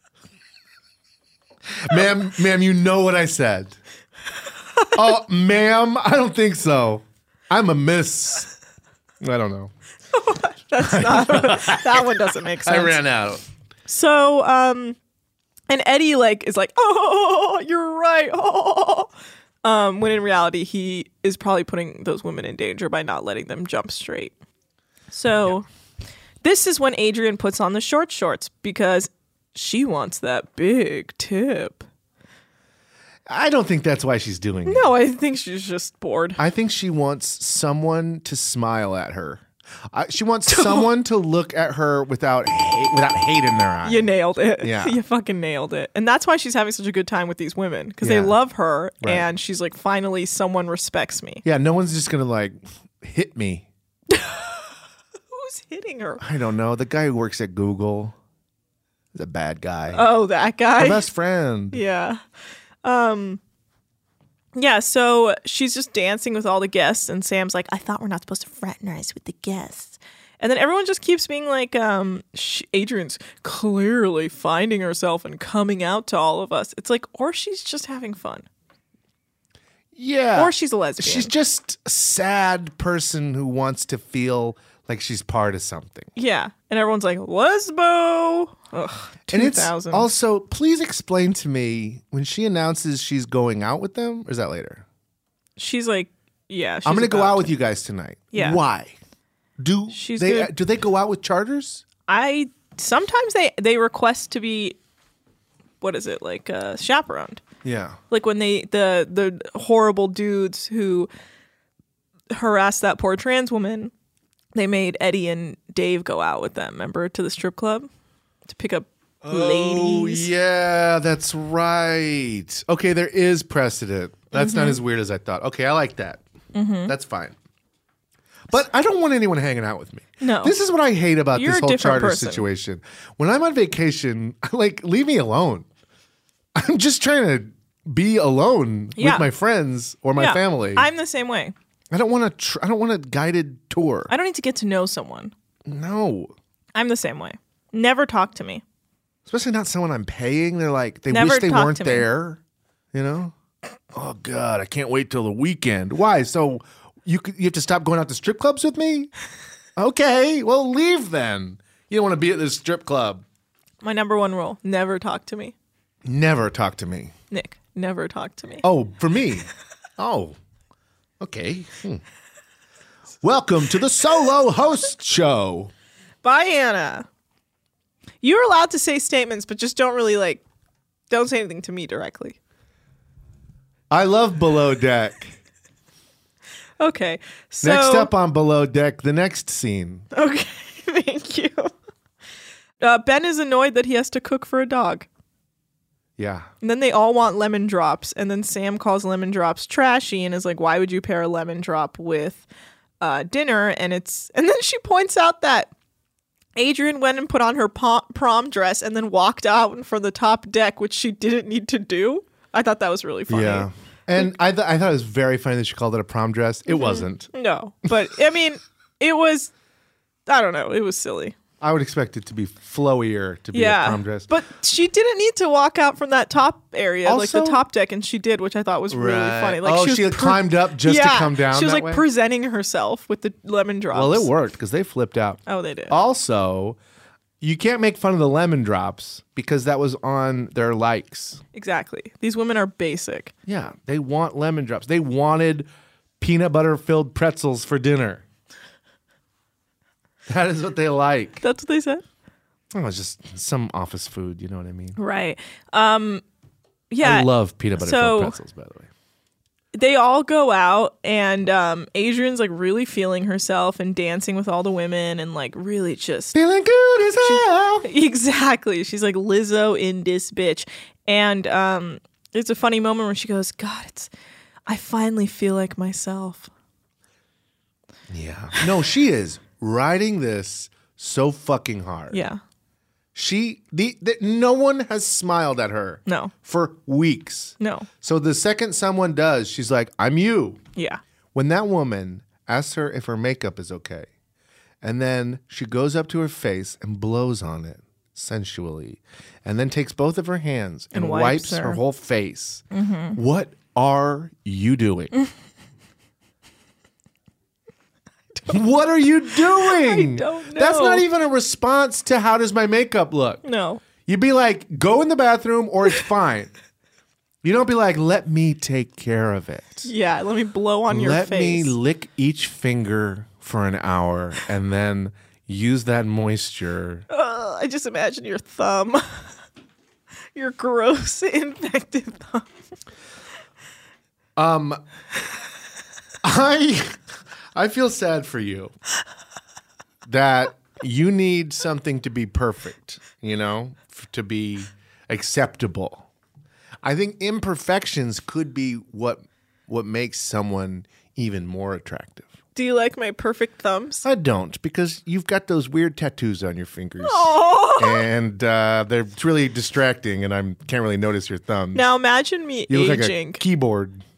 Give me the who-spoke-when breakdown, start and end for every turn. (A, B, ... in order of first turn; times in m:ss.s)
0:01.7-0:03.8 A
0:04.9-0:08.5 A
0:09.2-0:09.7 A
0:10.1-0:13.0 B
0:10.8-0:13.4 A
0:13.9-0:15.0 B
0:15.7-0:19.1 B
0:19.6-0:24.3 B
0:25.1-0:25.6 B
0:26.4-0:31.8 B
0:33.3-0:34.9 A
0:34.6-0:36.4 B
0:36.4-0:44.1 A
0:40.5-0:40.9 B
0:43.8-0:51.4 B
0:44.6-0:45.0 A
0:48.0-0:48.4 A
0:49.0-0:49.3 A
0:51.4-0:53.7 A
0:54.1-0:54.7 B
0:55.3-0:56.2 B
0:56.2-0:58.2 A
0:59.1-1:00.0 A
0:59.9-1:01.1 B
1:00.8-1:01.8 A
1:01.7-1:02.2 B
1:02.8-1:03.4 B
1:04.5-1:18.4 B
1:19.9-1:26.1 A
1:20.4-1:21.3 B
1:26.2-1:30.1 B
1:29.3-1:34.8 A
1:35.6-1:37.6 B
1:36.8-1:39.0 A
1:38.3-1:38.6 B
1:39.6-1:41.8 A
1:39.9-1:40.5 B
1:42.1-1:44.8 B
1:45.8-1:47.4 B
1:47.6-1:48.0 A
1:48.1-1:51.1 B
1:52.3-1:53.9 B
1:54.5-1:57.9 B
1:58.5-2:00.3 B
1:59.2-2:06.2 A
2:04.3-2:04.8 B
2:06.5-2:06.9 B
2:06.8-2:07.4 A
2:08.5-2:15.7 A
2:10.2-2:10.6 B
2:11.3-2:12.5 B
2:16.5-2:20.9 A
2:19.0-2:19.3 B
2:20.2-2:21.5 B
2:21.9-2:24.1 A
2:24.1-2:25.3 B
2:25.6-2:26.3 A
2:26.7-2:28.6 B
2:29.2-2:32.4 A
2:31.1-2:32.1 B
2:32.9-2:33.3 A
2:33.9-2:39.1 A
2:39.8-2:43.2 A
2:43.8-2:45.5 B
2:46.0-2:47.1 A
2:47.3-2:48.6 B
2:48.6-2:50.4 A
2:51.2-2:52.0 A
2:53.2-2:55.7 A
2:56.2-2:57.0 B
2:58.2-3:00.4 B
3:01.1-3:02.4 B
3:03.9-3:05.3 A
3:06.8-3:08.1 B
3:07.6-3:10.0 A
3:10.1-3:11.7 B
3:12.8-3:15.0 B
3:16.2-3:16.5 A
3:16.6-3:22.4 B
3:23.0-3:25.7 B
3:26.6-3:33.7 B
3:33.3-3:37.3 A
3:36.7-3:39.5 B
3:40.3-3:41.4 B
3:41.6-3:44.3 A
3:43.5-3:54.3 B
3:47.0-3:47.6 A
3:48.9-3:52.0 A
3:53.9-3:56.8 A
3:55.5-3:55.9 B
3:57.4-4:01.4 A
4:01.5-4:03.3 B
4:03.5-4:05.7 A
4:06.2-4:08.2 A
4:10.3-4:11.4 A
4:11.4-4:12.0 B
4:12.7-4:15.0 A
4:15.0-4:16.2 B
4:16.9-4:18.4 B
4:17.0-4:18.9 A
4:19.7-4:26.3 B
4:26.3-4:27.9 A
4:27.2-4:34.1 B
4:34.7-4:36.5 B
4:38.1-4:42.2 A
4:42.1-4:42.4 B
4:43.1-4:50.6 A
4:46.0-4:46.3 B
4:47.6-4:47.9 B
4:50.8-4:51.0 B
4:51.3-4:54.1 A
4:54.8-5:05.1 A
5:00.9-5:01.8 B
5:02.7-5:03.2 B
5:08.5-5:13.4 A
5:09.6-5:11.0 B
5:13.4-5:13.8 B
5:14.0-5:16.5 A
5:17.4-5:19.9 A
5:19.8-5:21.8 B
5:20.9-5:27.0 A
5:27.1-5:29.2 B
5:30.3-5:32.5 B
5:34.4-5:34.8 A
5:36.2-5:37.0 A
5:37.5-5:38.7 A
5:40.0-5:46.1 A
5:46.8-5:52.3 A
5:52.5-5:54.0 B
5:54.0-6:01.9 A
5:57.0-5:58.1 B
6:01.7-6:03.4 B
6:02.7-6:04.0 A